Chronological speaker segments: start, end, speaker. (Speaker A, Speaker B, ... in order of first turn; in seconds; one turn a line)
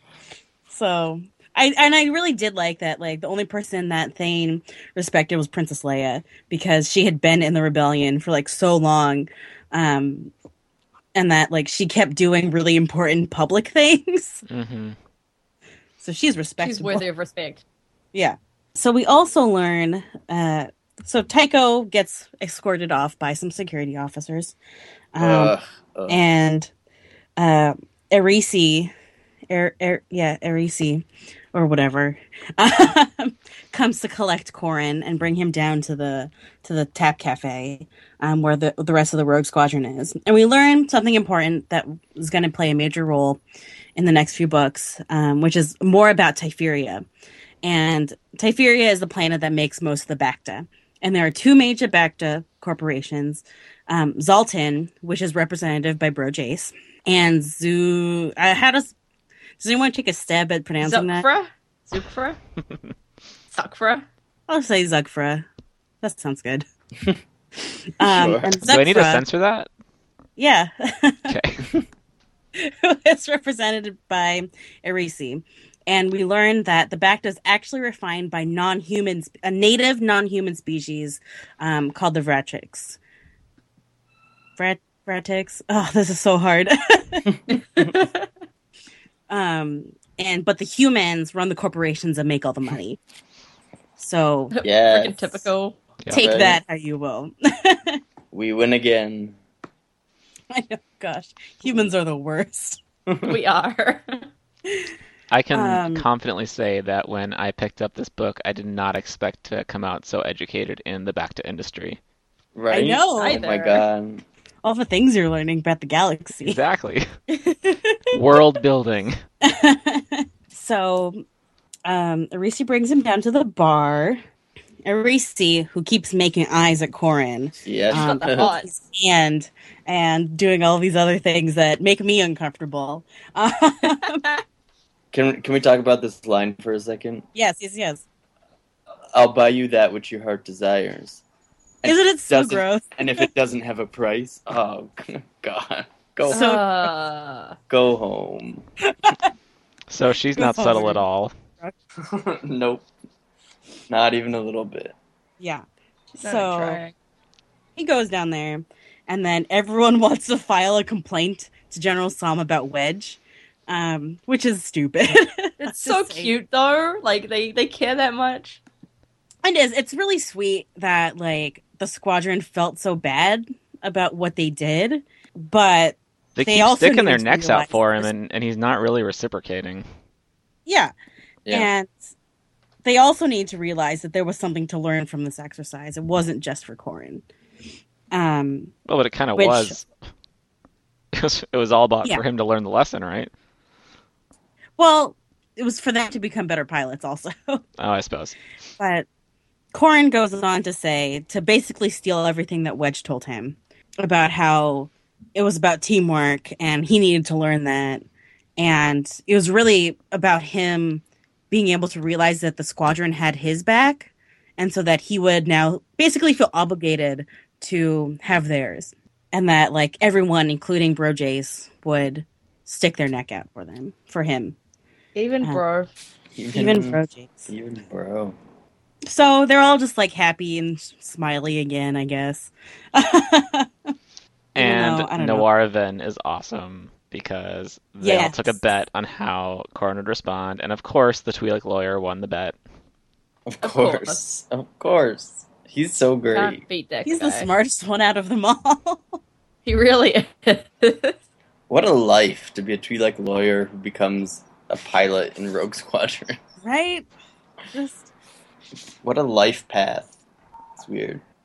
Speaker A: 0.7-10.3
Speaker A: 11.1-14.4
Speaker B: 14.5-14.9
Speaker A: 16.0-17.0
Speaker C: 16.6-17.6
Speaker A: 18.1-24.5
Speaker A: 25.1-25.5
Speaker D: 25.2-26.2
Speaker A: 26.1-26.7
Speaker A: 27.4-28.9
Speaker A: 29.5-43.4
Speaker A: 44.0-47.0
Speaker A: 47.6-58.9
Speaker A: 59.6-61.2
Speaker C: 60.8-62.4
Speaker C: 63.5-64.0
Speaker A: 64.5-65.5
Speaker A: 66.0-66.6
Speaker A: 68.0-69.2
Speaker D: 68.0-68.6
Speaker B: 68.6-69.7
Speaker A: 70.4-71.3
Speaker B: 71.3-71.7
Speaker A: 72.5-83.0
Speaker A: 84.6-87.3
Speaker C: 87.8-88.2
Speaker A: 89.3-93.0
Speaker A: 94.0-94.5
Speaker C: 94.5-95.8
Speaker D: 94.6-95.5
Speaker D: 96.1-96.6
Speaker A: 96.1-98.0
Speaker D: 98.3-99.3
Speaker A: 100.5-102.8
Speaker D: 103.1-103.3
Speaker C: 103.2-104.2
Speaker B: 105.3-112.0
Speaker A: 105.5-106.1
Speaker D: 112.5-114.2
Speaker A: 112.7-113.4
Speaker C: 113.2-113.8
Speaker A: 114.6-116.6
Speaker B: 116.4-117.0
Speaker C: 117.3-118.1
Speaker B: 118.1-119.2
Speaker A: 119.4-121.2
Speaker A: 121.8-124.2
Speaker A: 124.8-134.3
Speaker D: 127.6-128.5
Speaker C: 127.9-128.7
Speaker D: 135.1-137.2
Speaker A: 137.3-138.0
Speaker D: 139.1-141.2
Speaker D: 141.8-146.4
Speaker A: 141.8-143.3
Speaker C: 146.3-147.6
Speaker A: 146.3-146.9
Speaker D: 147.7-148.6
Speaker B: 149.9-151.3
Speaker A: 150.3-151.0
Speaker D: 152.0-152.8
Speaker D: 153.9-154.9
Speaker A: 156.2-156.8
Speaker C: 156.2-156.9
Speaker A: 157.8-166.3
Speaker C: 165.6-168.6
Speaker A: 169.4-178.1
Speaker B: 176.3-179.8
Speaker A: 180.7-180.9
Speaker A: 181.5-181.9
Speaker A: 182.8-187.2
Speaker A: 188.1-188.7
Speaker B: 188.8-189.9
Speaker A: 189.3-189.8
Speaker B: 191.1-193.3
Speaker A: 194.8-197.6
Speaker B: 197.8-198.3
Speaker A: 198.8-199.1
Speaker A: 199.7-208.0
Speaker A: 208.6-224.6
Speaker C: 225.1-225.9
Speaker D: 226.3-228.3
Speaker A: 226.5-227.5
Speaker A: 229.1-233.7
Speaker B: 234.5-242.6
Speaker A: 234.6-235.5
Speaker A: 238.0-238.6
Speaker D: 243.5-246.6
Speaker C: 243.6-244.2
Speaker C: 246.3-247.5
Speaker A: 247.0-249.2
Speaker C: 249.7-251.2
Speaker D: 251.7-256.4
Speaker A: 256.6-257.1
Speaker A: 257.7-258.1
Speaker D: 259.0-260.1
Speaker D: 260.8-261.2